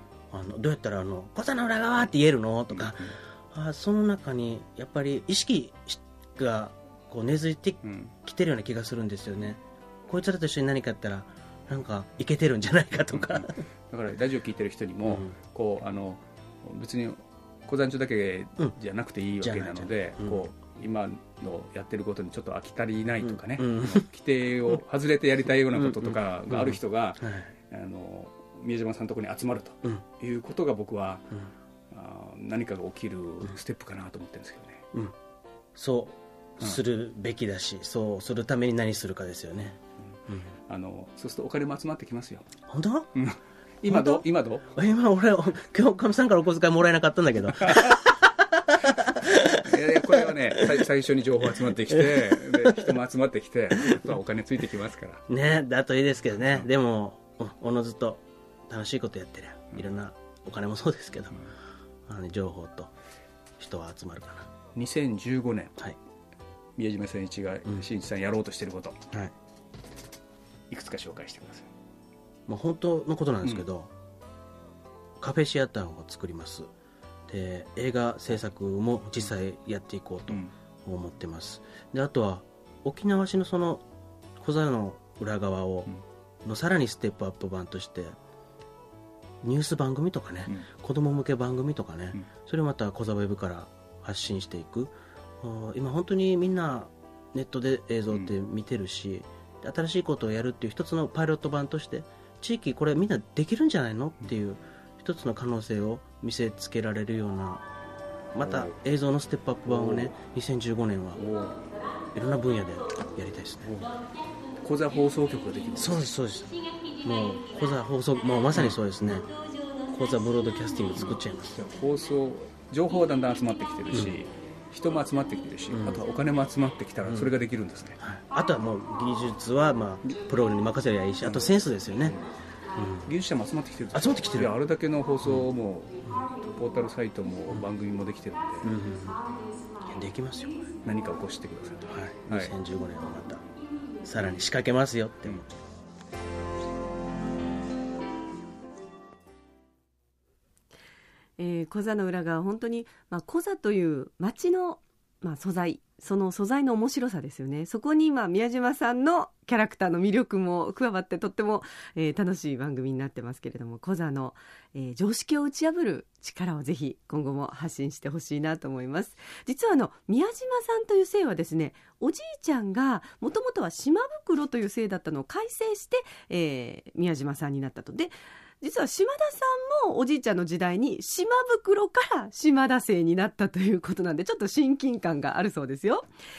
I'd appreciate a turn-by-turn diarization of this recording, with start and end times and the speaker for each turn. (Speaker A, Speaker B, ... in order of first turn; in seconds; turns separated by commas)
Speaker A: 0.3-13.6, Speaker B: 2.7-3.1, Speaker B: 7.8-8.1, Speaker B: 13.1-31.3, Speaker A: 15.0-15.3, Speaker A: 19.4-20.5, Speaker A: 23.2-24.1, Speaker A: 25.7-27.5, Speaker B: 31.9-34.9, Speaker A: 35.7-40.5, Speaker B: 40.7-42.5, Speaker A: 42.6-43.1, Speaker B: 43.1-44.7, Speaker A: 43.8-50.9, Speaker B: 47.6-48.0, Speaker B: 49.0-55.2, Speaker A: 51.5-52.9, Speaker A: 53.8-54.2, Speaker A: 55.3-61.4, Speaker A: 62.1-62.9, Speaker A: 63.6-64.5, Speaker B: 64.7-65.8, Speaker B: 66.8-69.1, Speaker B: 70.7-71.7, Speaker A: 72.5-73.9, Speaker A: 75.2-76.7, Speaker A: 77.3-83.8, Speaker A: 84.4-85.9, Speaker A: 86.4-88.2, Speaker A: 89.4-107.6, Speaker A: 108.3-111.2, Speaker B: 108.4-108.8, Speaker B: 109.7-110.1, Speaker B: 111.2-111.6, Speaker A: 112.1-113.8, Speaker B: 113.7-113.9, Speaker B: 114.6-116.0, Speaker A: 115.8-121.5, Speaker B: 121.0-128.0, Speaker A: 123.9-124.2, Speaker A: 125.7-126.0, Speaker A: 127.0-127.3, Speaker A: 128.0-132.2, Speaker B: 131.2-132.3, Speaker A: 132.7-133.1, Speaker B: 133.0-138.7, Speaker A: 133.9-134.5, Speaker A: 138.6-139.2, Speaker A: 139.8-140.8, Speaker B: 140.8-142.5, Speaker A: 141.8-143.4, Speaker A: 144.0-145.4, Speaker C: 151.4-186.1